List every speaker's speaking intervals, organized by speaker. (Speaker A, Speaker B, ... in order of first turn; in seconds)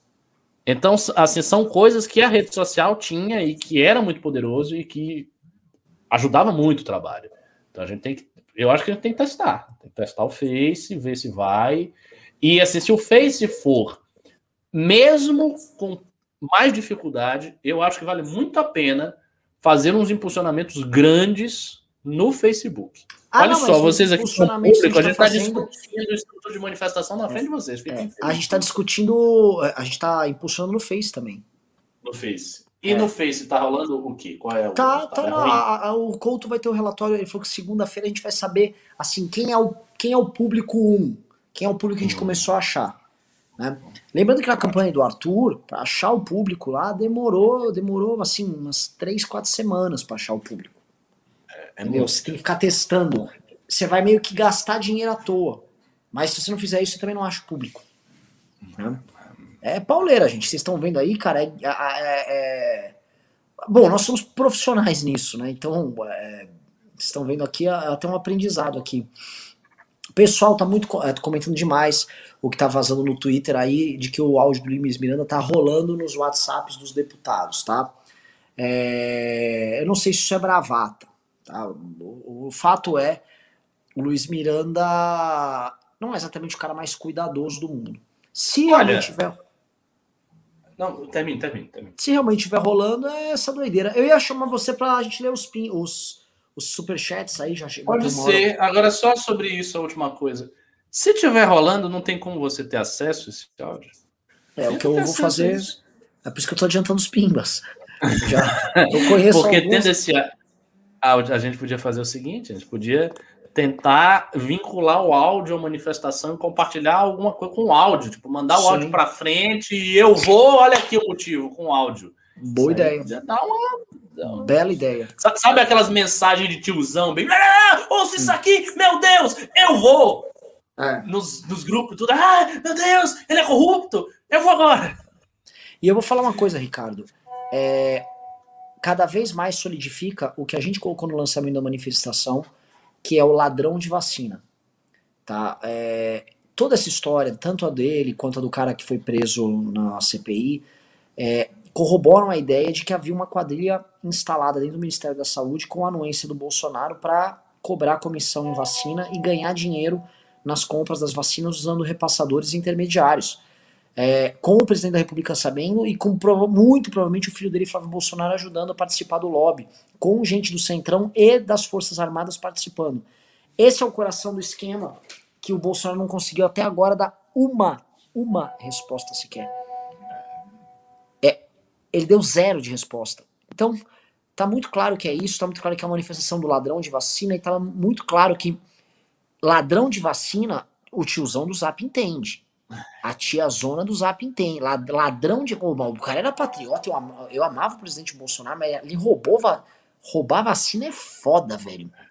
Speaker A: 0.7-5.3, 6.1-14.0, 14.7-28.6, 32.0-35.6, 42.0-42.4, 51.5-52.2, 88.7-89.1, 90.8-91.9, 97.9-103.9, 104.7-105.8, 108.4-110.3, 111.0-124.5, 125.2-130.3, 131.0-135.0
Speaker B: 23.3-25.7, 27.9-31.4, 34.8-43.0, 43.6-50.8, 51.8-57.8, 59.6-63.0, 63.7-69.1, 70.2-77.9, 78.6-83.2, 84.0-89.4, 92.0-98.5, 104.6-109.9, 118.5-119.0, 122.4-123.1, 124.2-125.1, 130.8-131.1, 135.8-138.1, 138.8-142.5, 143.0-144.4, 145.3-150.7, 151.2-163.4, 164.0-173.1, 173.6-179.5, 181.9-183.8, 184.4-188.6, 189.4-192.4, 193.0-201.9